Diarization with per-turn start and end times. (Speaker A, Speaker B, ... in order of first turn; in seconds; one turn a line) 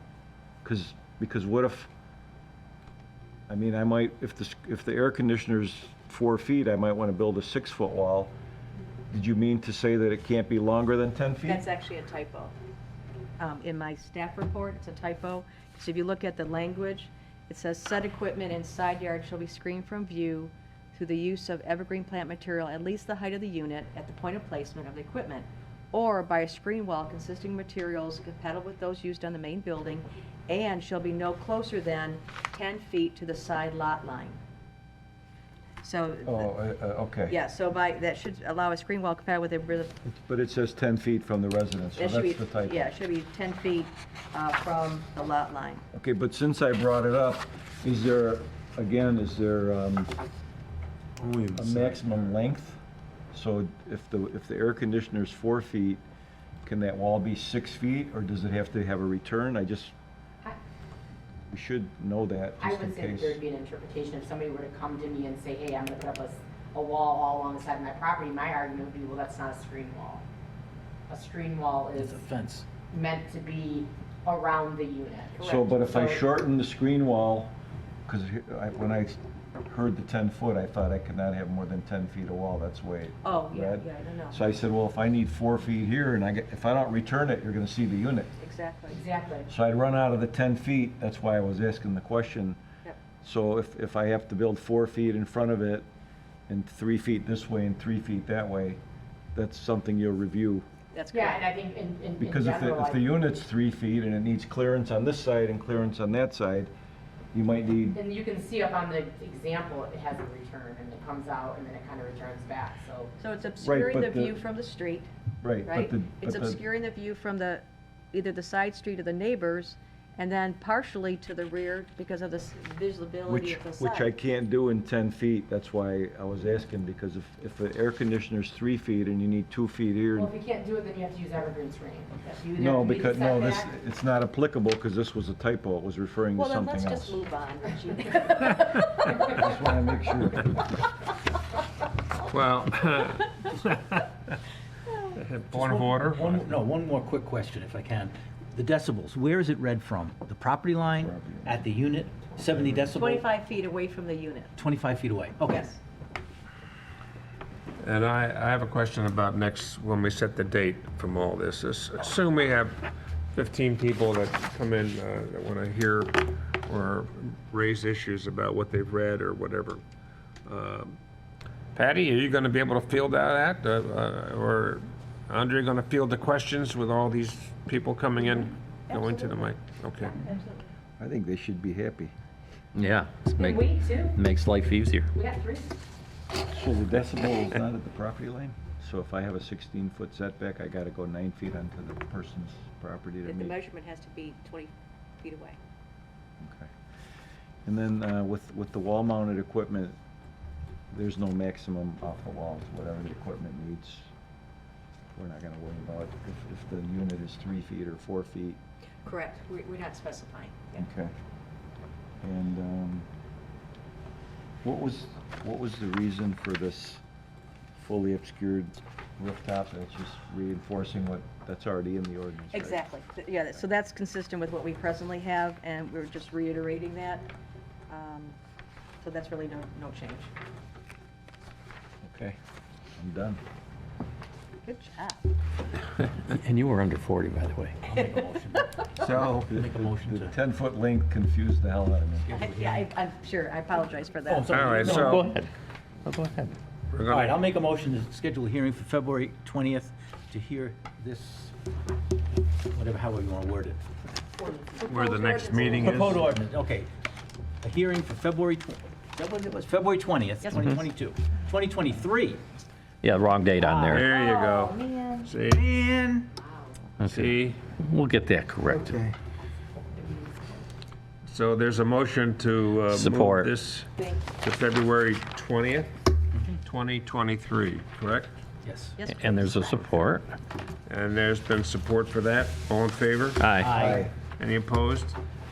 Speaker A: 0.6-1.9
Speaker A: 3.5-8.3
Speaker A: 9.1-11.6
Speaker B: 11.5-12.5
Speaker B: 13.4-34.4
Speaker B: 35.8-36.5
Speaker A: 36.2-37.4
Speaker B: 37.3-40.0
Speaker A: 40.0-42.8
Speaker B: 42.0-45.8
Speaker A: 45.9-50.1
Speaker C: 51.2-52.0
Speaker A: 51.5-52.8
Speaker A: 53.3-56.0
Speaker A: 56.6-59.9
Speaker A: 61.5-63.4
Speaker D: 62.6-70.2
Speaker D: 71.1-72.2
Speaker E: 72.0-72.7
Speaker D: 72.9-76.2
Speaker A: 75.4-77.5
Speaker A: 78.1-88.3
Speaker B: 83.2-84.4
Speaker B: 88.4-88.9
Speaker D: 88.9-89.5
Speaker A: 89.5-92.6
Speaker A: 93.2-95.9
Speaker A: 96.5-98.8
Speaker A: 99.3-100.7
Speaker B: 101.0-101.2
Speaker D: 101.1-103.1
Speaker A: 102.2-106.7
Speaker A: 107.3-108.0
Speaker D: 107.9-113.1
Speaker B: 113.2-115.1
Speaker A: 113.6-114.4
Speaker A: 115.4-116.6
Speaker B: 115.7-117.6
Speaker B: 118.1-124.0
Speaker A: 123.3-130.3
Speaker D: 130.1-133.7
Speaker A: 132.6-137.2
Speaker B: 136.4-139.1
Speaker A: 139.0-140.6
Speaker C: 142.3-144.3
Speaker C: 145.1-146.6
Speaker E: 145.5-153.3
Speaker A: 151.0-151.6
Speaker B: 153.0-154.5
Speaker E: 154.6-155.7
Speaker B: 155.5-155.8
Speaker C: 157.8-169.8
Speaker C: 170.4-170.9
Speaker C: 171.7-180.1
Speaker B: 178.4-180.7
Speaker A: 181.0-182.1
Speaker F: 182.7-185.1
Speaker D: 183.4-184.2
Speaker D: 185.1-185.8
Speaker A: 186.5-193.6
Speaker B: 193.2-195.6
Speaker A: 196.4-196.7
Speaker A: 197.7-200.0
Speaker A: 200.9-204.1
Speaker A: 205.2-208.6
Speaker B: 209.0-210.8
Speaker A: 210.8-211.1
Speaker A: 212.2-213.1
Speaker A: 214.6-217.0
Speaker A: 217.8-222.9
Speaker B: 222.5-227.3
Speaker B: 227.9-228.4
Speaker B: 229.0-230.3
Speaker A: 232.0-232.4
Speaker A: 233.0-233.4
Speaker B: 234.6-235.3
Speaker F: 236.0-237.8
Speaker E: 237.8-240.3
Speaker A: 239.5-242.3
Speaker E: 242.2-242.9
Speaker B: 242.3-244.5
Speaker E: 244.2-245.4
Speaker C: 244.5-245.3
Speaker F: 246.0-246.5
Speaker C: 246.9-247.4
Speaker E: 247.1-251.5
Speaker E: 252.7-253.8
Speaker D: 254.3-255.0
Speaker C: 254.9-256.3
Speaker B: 254.9-255.7
Speaker D: 255.5-255.9
Speaker E: 255.7-256.9
Speaker E: 257.6-262.4
Speaker F: 263.0-264.1
Speaker B: 263.8-265.3
Speaker C: 263.8-265.6
Speaker E: 265.5-266.3
Speaker D: 266.3-266.8
Speaker F: 267.0-269.0
Speaker C: 267.0-267.6
Speaker E: 268.8-269.1
Speaker C: 271.2-275.9
Speaker F: 272.9-273.5
Speaker D: 274.0-274.3
Speaker C: 276.5-278.3
Speaker E: 278.6-279.0
Speaker B: 279.0-279.4
Speaker F: 279.1-280.3
Speaker C: 280.9-285.2
Speaker F: 283.4-283.7
Speaker E: 283.6-284.1
Speaker A: 283.8-284.1